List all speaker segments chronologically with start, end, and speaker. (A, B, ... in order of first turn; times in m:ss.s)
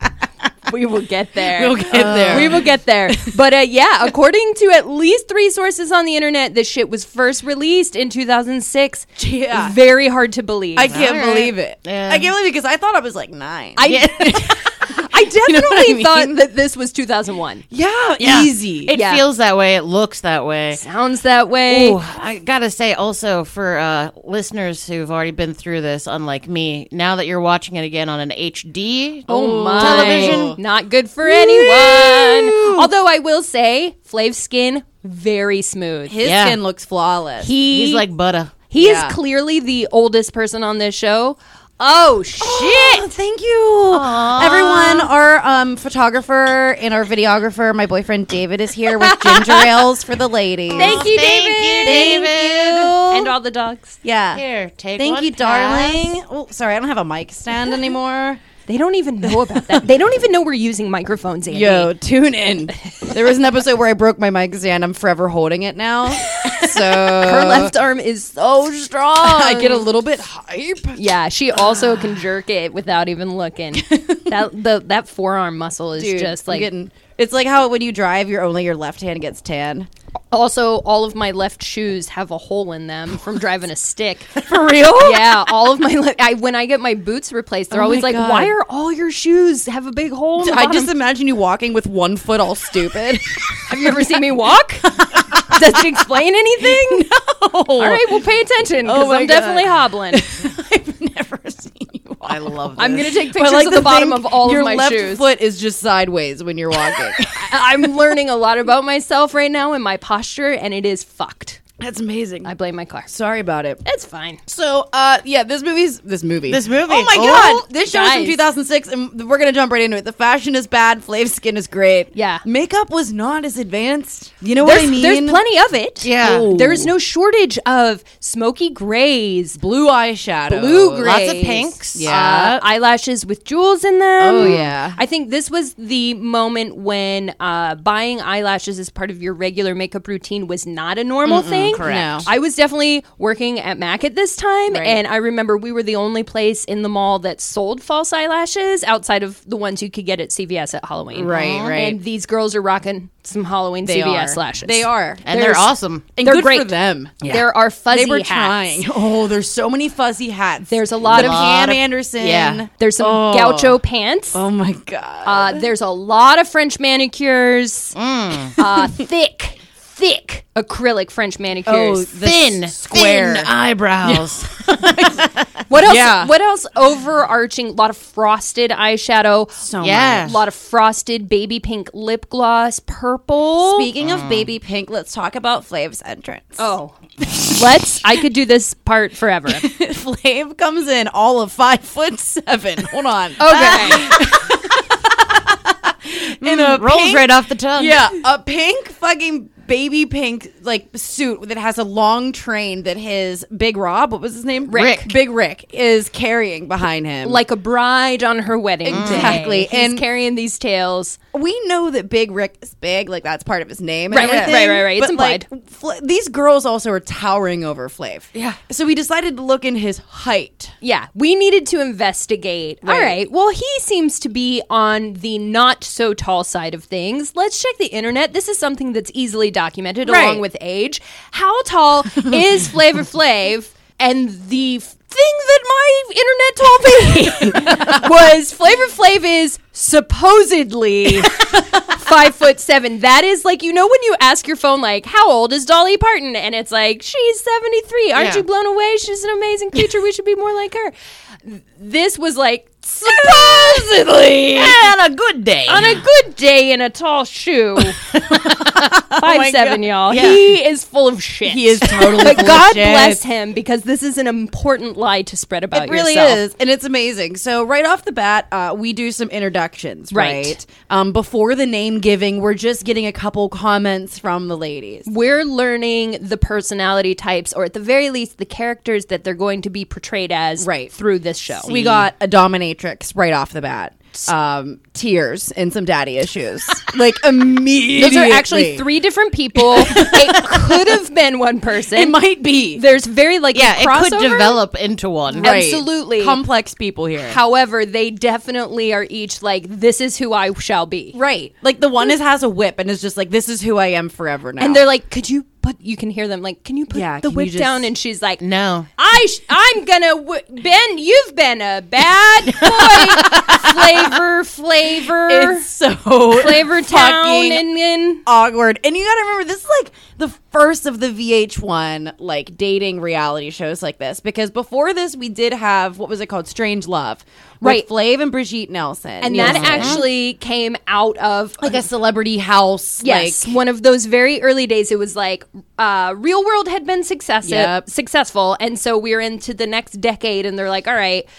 0:00.7-0:11.0 A
0:01.5-0:03.3 B
0:01.9-0:02.6 C
0:09.2-0:09.8 B
0:10.8-0:14.6 B
0:10.9-0:12.3 C
0:13.8-0:17.6 A
0:13.9-0:14.7 C
0:15.4-0:16.4 B
0:17.7-0:19.0 B
0:18.2-0:20.8 C
0:18.9-0:19.2 A
0:20.7-0:22.0 A
0:21.7-0:30.6 C
0:29.3-0:30.6 B
0:29.3-0:36.2 A
0:31.3-0:32.7 B
0:36.1-0:37.5 B
0:36.2-0:36.6 C
0:37.4-0:38.0 A
0:37.7-0:38.6 C
0:38.7-0:43.1 A
0:38.8-0:39.2 B
0:42.4-0:51.1 B
0:43.9-0:45.1 C
0:49.0-0:49.8 C
0:50.7-0:53.0 C
0:50.7-0:52.3 A
0:51.8-0:53.4 B
0:53.1-0:54.0 A
0:54.0-0:54.4 B
0:54.3-0:56.1 C
0:55.0-0:58.4 B
0:58.7-1:01.9 A
0:59.3-0:59.8 B
1:01.5-1:07.7 B
1:06.4-1:09.9 A
1:09.1-1:11.0 B
1:11.0-1:16.7 A
1:11.6-1:12.0 B
1:13.7-1:14.3 B
1:16.0-1:19.9 B
1:20.3-1:24.4 A
1:24.4-1:25.3 B
1:25.0-1:30.9 A
1:27.7-1:28.6 B
1:30.4-1:34.0 B
1:33.7-1:37.1 A
1:35.0-1:38.2 B
1:37.8-1:40.2 A
1:38.8-1:47.9 B
1:42.2-1:43.0 C
1:42.8-1:45.3 A
1:47.2-1:51.6 A
1:51.8-1:52.5 B
1:52.4-1:53.1 A
1:53.1-1:53.8 B
1:53.8-1:54.4 A
1:54.5-2:05.4 B
1:56.5-1:57.6 C
1:57.8-1:58.4 A
2:02.1-2:02.4 A
2:04.6-2:09.6 A
2:06.0-2:06.6 C
2:06.2-2:06.9 B
2:09.6-2:11.2 B
2:10.5-2:38.8 A
2:11.0-2:12.6 C
2:11.9-2:12.4 B
2:14.2-2:15.0 B
2:14.4-2:14.6 C
2:21.2-2:22.3 B
2:21.8-2:22.3 C
2:24.7-2:25.0 B
2:31.1-2:32.0 B
2:31.3-2:31.8 C
2:33.8-2:35.3 B
2:35.3-2:36.1 C
2:36.2-2:43.8 B
2:40.7-2:41.6 A
2:41.1-2:42.6 C
2:42.8-2:44.4 A
2:44.3-2:45.6 B
2:45.2-2:48.0 A
2:48.0-2:48.6 C
2:48.6-2:48.9 B
2:48.6-2:52.1 A
2:51.7-2:53.5 B
2:52.2-2:55.3 C
2:54.0-2:56.3 B
2:55.7-2:59.6 A
2:59.6-3:00.4 B
2:59.8-3:00.4 C
3:00.2-3:03.9 A
3:03.6-3:08.0 B
3:04.0-3:04.5 C
3:06.6-3:07.0 A
3:07.5-3:09.7 A
3:09.5-3:27.4 B
3:13.4-3:14.2 A
3:16.4-3:18.1 C
3:24.7-3:25.1 A
3:24.7-3:25.1 C
3:27.2-3:31.2 A
3:28.8-3:30.0 B
3:28.9-3:29.4 C
3:31.3-3:40.7 B
3:34.1-3:35.4 A
3:34.2-3:34.6 C
3:40.8-4:10.9 A
3:42.8-3:43.2 B
3:50.0-3:50.4 B
3:57.5-3:58.0 B
4:01.2-4:02.0 B
4:08.2-4:08.4 C
4:11.4-4:14.6 A
4:13.0-4:14.8 B
4:13.2-4:13.8 C
4:14.5-4:16.0 C
4:15.7-4:18.0 A
4:18.1-4:18.6 C
4:18.3-4:20.3 B
4:19.2-4:26.4 A
4:20.1-4:20.4 C
4:21.5-4:23.2 B
4:25.7-4:35.1 B
4:30.1-4:30.6 A
4:35.1-4:42.1 A
4:40.6-4:40.9 B
4:41.6-4:48.8 B
4:48.0-4:52.2 A
4:49.6-4:50.9 B
4:51.9-4:52.8 B
4:52.7-4:54.6 A
4:53.5-4:55.6 C
4:55.4-4:57.4 B
4:55.4-4:56.4 A
4:57.2-5:01.2 A
5:01.1-5:04.9 B
5:04.6-5:08.4 A
5:06.9-5:07.9 B
5:08.4-5:08.9 C
5:09.0-5:15.7 A
5:12.5-5:14.2 B
5:15.0-5:17.7 B
5:16.3-5:18.2 A
5:18.3-5:30.0 B
5:29.2-5:31.8 A
5:29.4-5:30.0 C
5:31.6-5:33.5 B
5:33.0-5:41.3 A
5:37.4-5:37.9 B